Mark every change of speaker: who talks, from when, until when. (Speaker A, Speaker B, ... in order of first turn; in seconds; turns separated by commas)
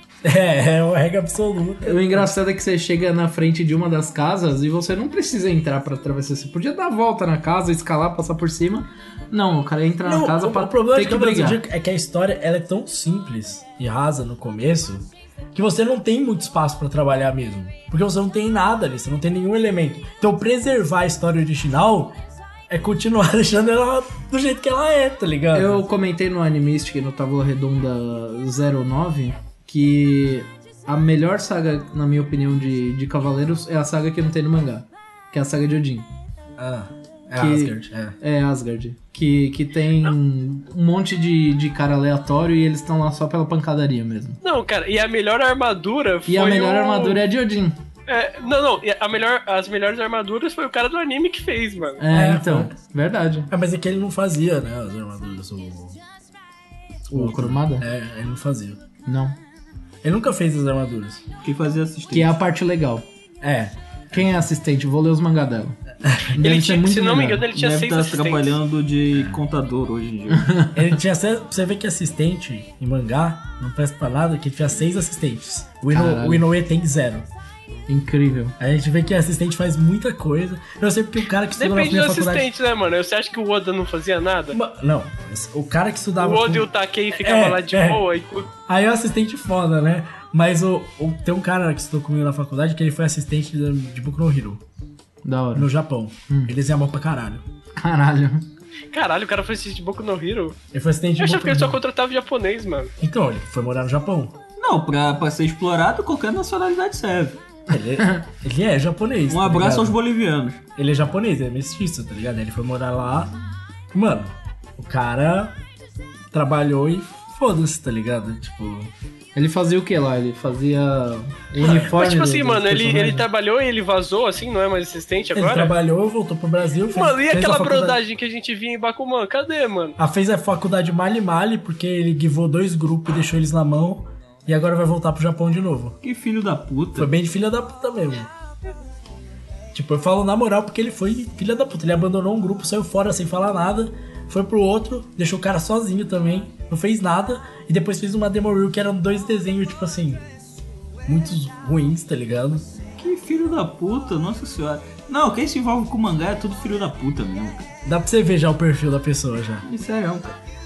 Speaker A: 0.2-2.4, Speaker B: 1.8-11.6, Speaker A: 10.0-22.2, Speaker A: 22.7-25.9, Speaker B: 25.5-36.1, Speaker A: 36.6-38.2, Speaker B: 37.4-44.4, Speaker C: 44.4-47.2, Speaker B: 46.3-47.8, Speaker C: 48.1-52.0, Speaker B: 52.0-53.5, Speaker A: 52.1-52.7, Speaker A: 53.5-56.0, Speaker A: 57.1-58.8, Speaker B: 57.1-57.9, Speaker B: 59.1-59.4, Speaker A: 60.0-61.2, Speaker D: 61.4-62.4, Speaker B: 62.1-63.1, Speaker A: 63.4-64.4, Speaker B: 64.1-67.5, Speaker A: 66.0-66.4, Speaker C: 66.4-68.6, Speaker D: 67.5-70.6, Speaker A: 69.1-69.4, Speaker B: 70.4-70.8, Speaker A: 70.7-77.3, Speaker B: 75.9-76.5, Speaker B: 77.9-78.5, Speaker A: 78.6-82.5, Speaker C: 81.6-84.6, Speaker A: 84.5-88.0, Speaker C: 86.2-88.5, Speaker A: 88.7-94.6, Speaker B: 95.2-95.7, Speaker A: 95.5-97.4, Speaker B: 97.8-98.5, Speaker C: 98.9-100.6, Speaker A: 100.7-101.8, Speaker C: 101.2-102.9, Speaker A: 103.0-104.3, Speaker D: 104.6-107.4, Speaker A: 107.7-110.0, Speaker D: 109.3-110.6, Speaker A: 110.8-113.4, Speaker A: 113.9-115.6, Speaker A: 116.3-118.9, Speaker B: 119.3-123.3, Speaker A: 121.6-121.9, Speaker C: 121.9-125.7, Speaker A: 125.3-128.0, Speaker C: 126.9-129.9, Speaker A: 130.0-136.0, Speaker D: 136.0-137.1, Speaker A: 137.0-138.3, Speaker A: 139.7-150.2, Speaker A: 151.1-152.7, Speaker D: 153.0-157.7, Speaker A: 157.8-159.7, Speaker D: 159.6-160.4